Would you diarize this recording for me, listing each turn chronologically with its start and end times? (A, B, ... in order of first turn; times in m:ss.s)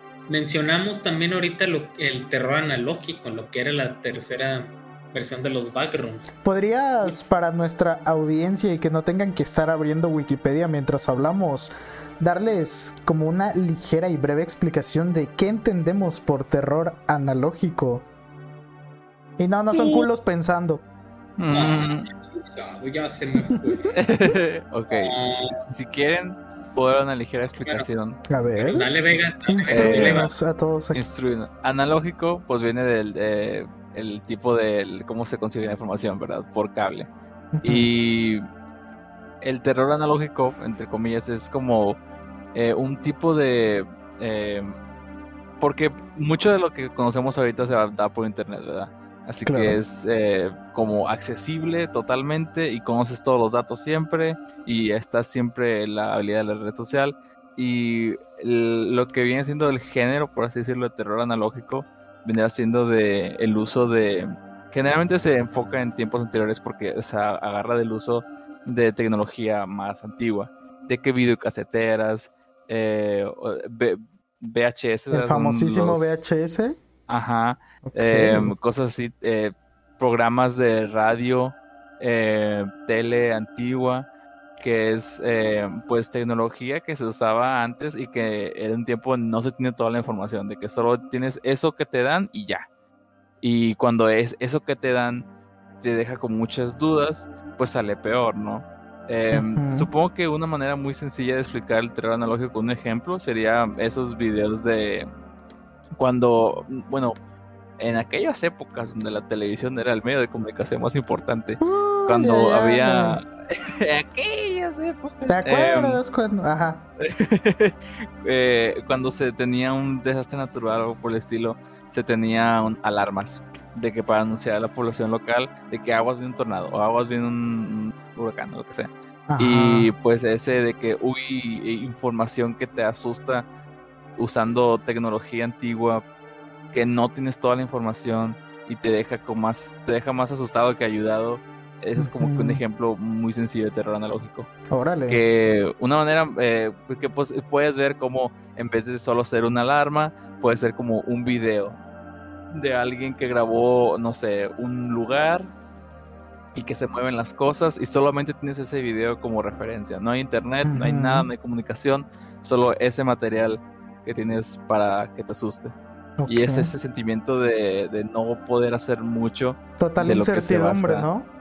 0:00.3-0:06.3 A
0:06.4-0:18.0 B
0:19.4-0:20.8 B
0:19.7-0:20.1 A
0:21.4-0:22.1 C
0:21.5-0:24.0 A
0:23.9-0:28.2 C
0:24.9-0:25.7 A
0:27.6-0:27.8 A
0:28.3-0:28.9 B
0:28.5-0:30.3 A
0:29.4-0:31.1 B
0:29.7-0:30.3 C
0:30.9-0:37.1 C
0:37.5-0:37.9 B
0:37.6-0:38.4 C
0:39.4-0:42.0 C
0:42.5-0:44.7 C
0:45.6-1:16.2 C
0:49.4-0:49.8 B
1:15.1-1:16.8 B
1:17.1-1:24.1 C
1:17.8-1:18.5 B
1:24.6-1:32.7 C
1:33.4-1:35.2 C
1:35.8-1:45.1 C
1:39.3-1:39.9 B
1:45.9-1:47.2 C
1:47.8-1:56.0 C
1:51.6-1:53.2 B
1:55.3-1:56.8 B
1:57.0-2:13.4 C
2:09.3-2:09.9 B
2:14.2-2:16.0 C
2:16.7-2:24.5 C
2:22.0-2:22.6 B
2:24.7-2:25.2 B
2:25.1-2:31.8 C
2:32.5-2:35.5 C
2:36.5-2:45.7 C
2:40.6-2:41.3 B
2:46.2-2:46.7 B
2:46.3-2:51.1 C
2:49.8-2:51.3 B